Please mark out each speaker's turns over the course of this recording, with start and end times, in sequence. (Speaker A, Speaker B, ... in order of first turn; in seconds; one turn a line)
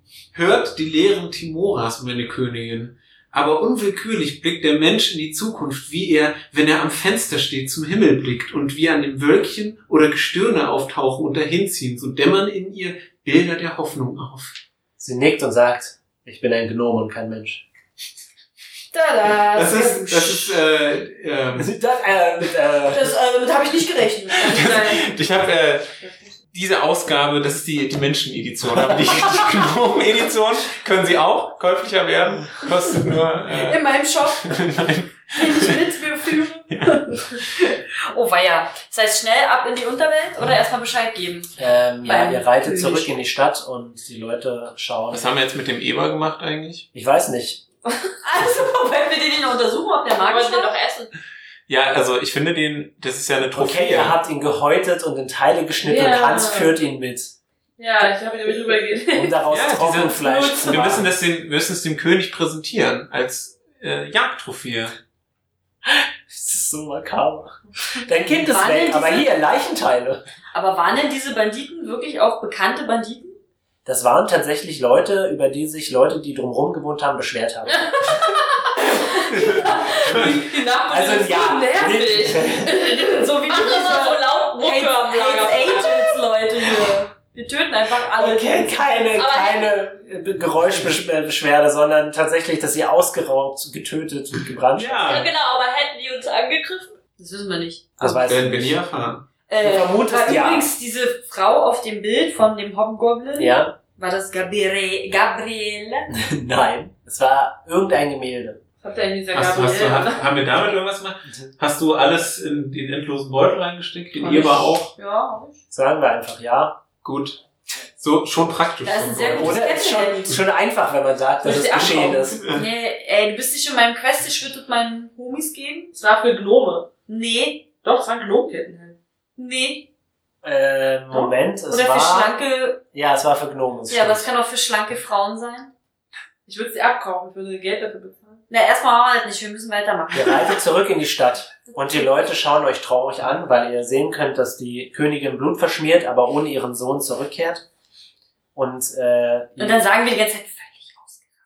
Speaker A: 0.3-14.6
Speaker B: 15.0-17.6
Speaker C: 18.9-20.6
Speaker A: 19.5-21.7
Speaker B: 21.6-23.2
Speaker C: 22.9-25.1
Speaker A: 24.4-25.9
Speaker D: 24.6-25.1
Speaker D: 26.0-26.3
Speaker A: 26.5-35.9
Speaker C: 33.5-34.6
Speaker C: 35.3-43.2
Speaker A: 36.7-37.4
Speaker B: 41.6-45.3
Speaker A: 45.1-46.9
Speaker B: 46.9-47.6
Speaker C: 48.2-50.7
Speaker E: 50.1-51.1
Speaker A: 51.7-54.2
Speaker B: 53.4-57.3
Speaker D: 55.8-56.7
Speaker D: 57.8-59.4
Speaker B: 59.1-61.1
Speaker A: 59.5-65.0
Speaker D: 60.2-61.0
Speaker B: 65.8-70.2
Speaker C: 68.4-69.3
Speaker C: 70.5-73.4
Speaker B: 73.8-78.0
Speaker C: 78.7-80.2
Speaker A: 79.3-80.4
Speaker D: 79.7-83.8
Speaker B: 80.9-82.9
Speaker C: 82.6-89.7
Speaker E: 83.5-85.9
Speaker B: 88.1-95.3
Speaker A: 94.7-95.3
Speaker C: 95.0-97.9
Speaker B: 98.0-98.8
Speaker A: 98.0-99.2
Speaker C: 99.5-106.1
Speaker B: 99.6-100.7
Speaker B: 103.4-103.7
Speaker B: 106.1-108.6
Speaker D: 108.8-110.2
Speaker A: 109.3-114.9
Speaker D: 114.2-115.5
Speaker C: 114.2-115.0
Speaker B: 115.7-116.8
Speaker A: 117.0-117.4
Speaker A: 118.0-119.6
Speaker C: 118.8-120.4
Speaker B: 119.4-122.4
Speaker D: 121.4-122.4
Speaker C: 122.5-125.9
Speaker D: 125.9-126.9
Speaker C: 127.1-127.6
Speaker D: 127.8-128.9
Speaker C: 129.4-129.9
Speaker B: 130.4-132.4
Speaker C: 131.1-132.8
Speaker B: 132.9-134.3
Speaker C: 133.9-135.7
Speaker D: 136.4-138.4
Speaker C: 138.5-140.6
Speaker B: 140.1-147.6
Speaker B: 148.5-149.8
Speaker C: 149.6-151.2